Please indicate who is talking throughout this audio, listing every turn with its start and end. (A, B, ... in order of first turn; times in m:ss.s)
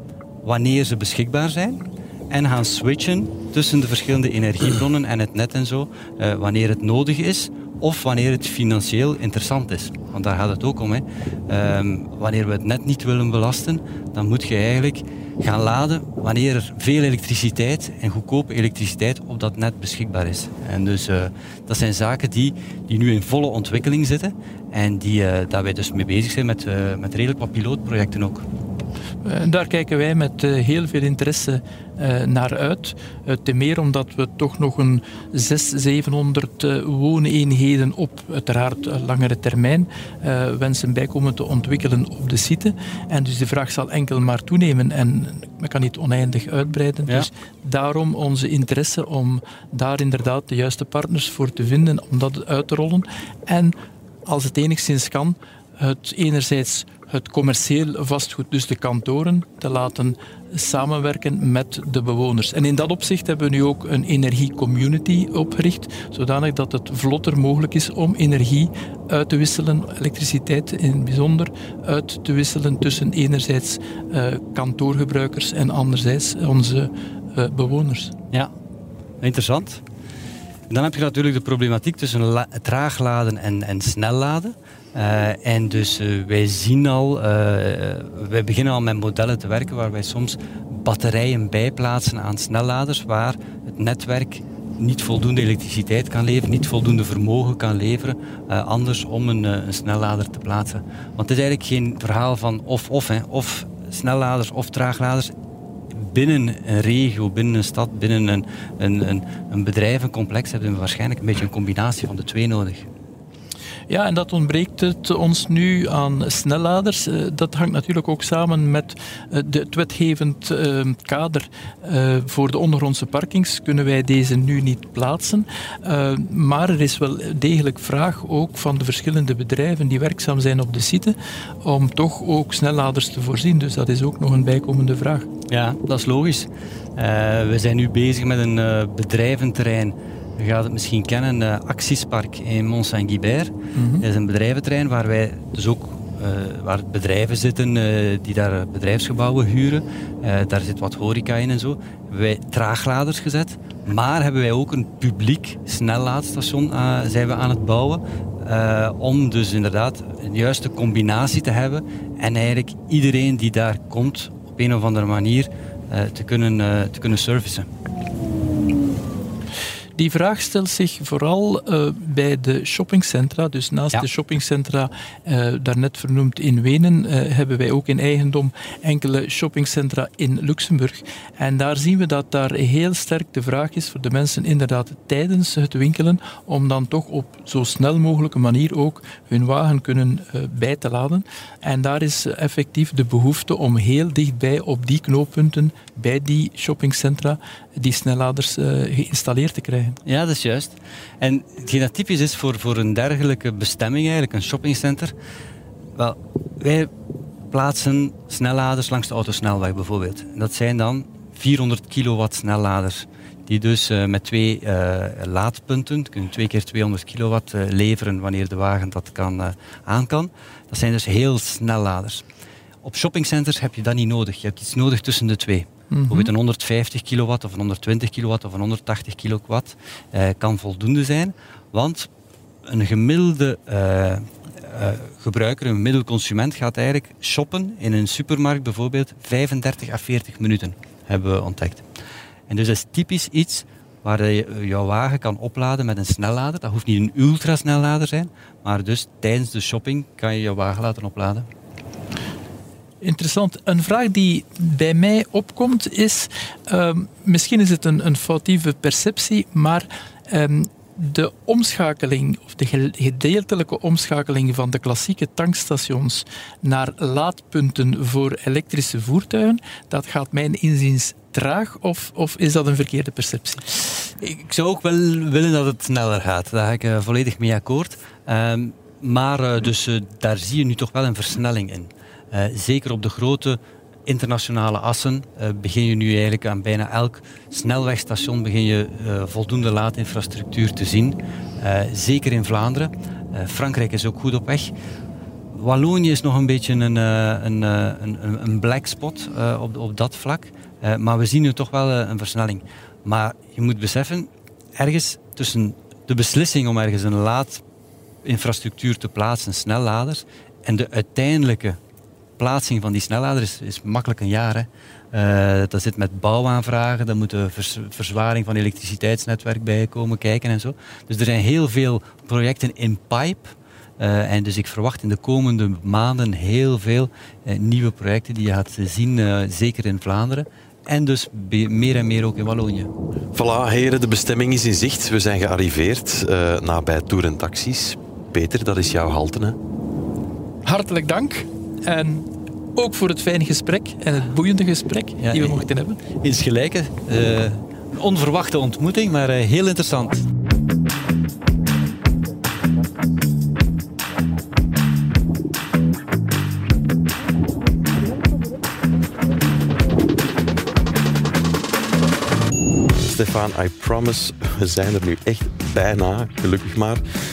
0:00.4-0:28.4 A
0:29.2-1:18.1 B
1:19.2-1:19.8 A
1:20.7-1:45.3 A
1:45.9-1:52.8 A
1:53.9-2:15.3 B
2:15.5-2:47.7 A
2:23.7-2:24.0 B
2:50.0-3:20.0 B
3:20.0-3:25.1 A
3:26.0-3:26.9 A
3:27.5-3:42.2 A
3:42.8-3:52.1 A
3:45.9-3:46.3 B
3:52.6-4:01.8 A
4:02.5-4:11.4 A
4:13.0-4:33.6 B
4:33.8-4:54.7 A
4:55.5-5:07.6 A
5:08.2-5:11.8 A
5:12.4-5:32.9 A
5:33.3-5:39.6 C
5:40.6-5:46.0 B
5:45.2-5:45.6 A
5:46.2-5:50.2 A
6:03.0-6:07.0 C